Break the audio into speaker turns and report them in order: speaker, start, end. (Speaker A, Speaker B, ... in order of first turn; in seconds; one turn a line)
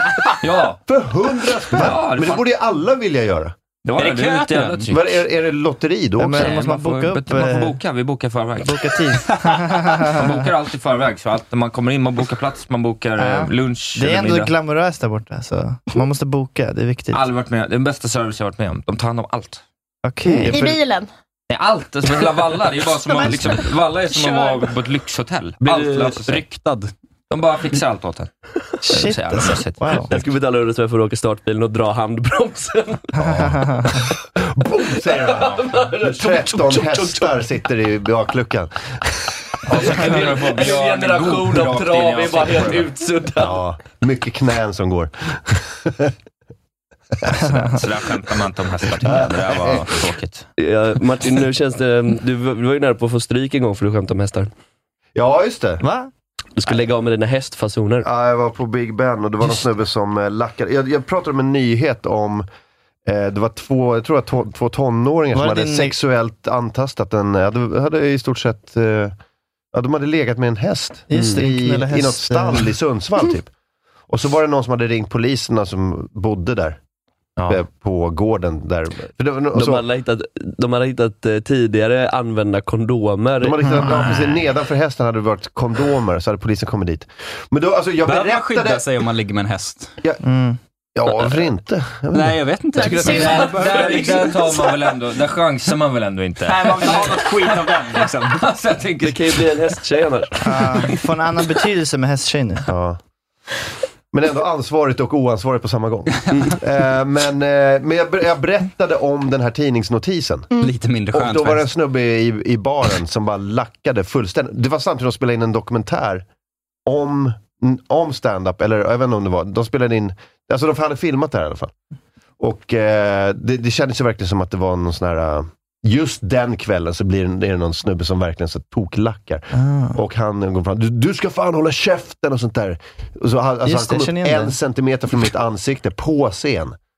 Speaker A: 0.4-0.8
Speaker B: 0.9-3.5
Speaker A: 1.7-2.5
Speaker A: 3.9-5.1
Speaker C: 4.0-4.9
Speaker B: 4.9-6.7
Speaker D: 6.2-7.8
Speaker A: 6.3-9.0
Speaker D: 8.6-10.3
Speaker A: 10.1-14.5
Speaker D: 13.2-17.2
Speaker A: 17.1-19.6
Speaker D: 20.1-20.8
Speaker E: 20.5-21.1
Speaker A: 21.5-26.4
Speaker E: 23.1-23.4
Speaker E: 24.1-24.6
Speaker C: 25.7-26.9
Speaker A: 27.3-28.3
Speaker D: 28.8-30.1
Speaker A: 28.9-30.1
Speaker F: 30.1-33.1
Speaker D: 33.2-34.0
Speaker B: 33.2-33.5
Speaker B: 34.4-39.1
Speaker F: 35.1-37.4
Speaker A: 39.7-42.9
Speaker F: 39.7-43.6
Speaker B: 43.4-46.1
Speaker B: 47.2-47.5
Speaker A: 47.5-50.5
Speaker B: 49.0-50.0
Speaker F: 50.6-54.5
Speaker B: 55.1-55.8
Speaker D: 55.8-56.1
Speaker F: 56.6-58.1
Speaker B: 58.0-62.5
Speaker B: 63.1-69.2
Speaker D: 65.3-66.0
Speaker B: 69.7-73.5
Speaker D: 71.1-72.7
Speaker F: 71.1-71.4
Speaker B: 74.1-76.8
Speaker B: 77.5-79.8
Speaker F: 79.5-83.7
Speaker B: 83.4-88.9
Speaker D: 83.7-84.1
Speaker C: 88.0-89.9
Speaker D: 90.2-90.6
Speaker B: 91.0-93.4
Speaker C: 92.1-94.5
Speaker E: 92.7-93.5
Speaker A: 93.0-99.5
Speaker C: 96.4-98.4
Speaker F: 99.0-100.9
Speaker D: 100.4-102.7
Speaker B: 102.7-103.0
Speaker B: 104.1-110.5
Speaker C: 110.6-111.7
Speaker B: 111.1-116.2
Speaker B: 116.9-121.7
Speaker B: 122.4-136.8
Speaker D: 129.5-130.0
Speaker D: 133.7-134.5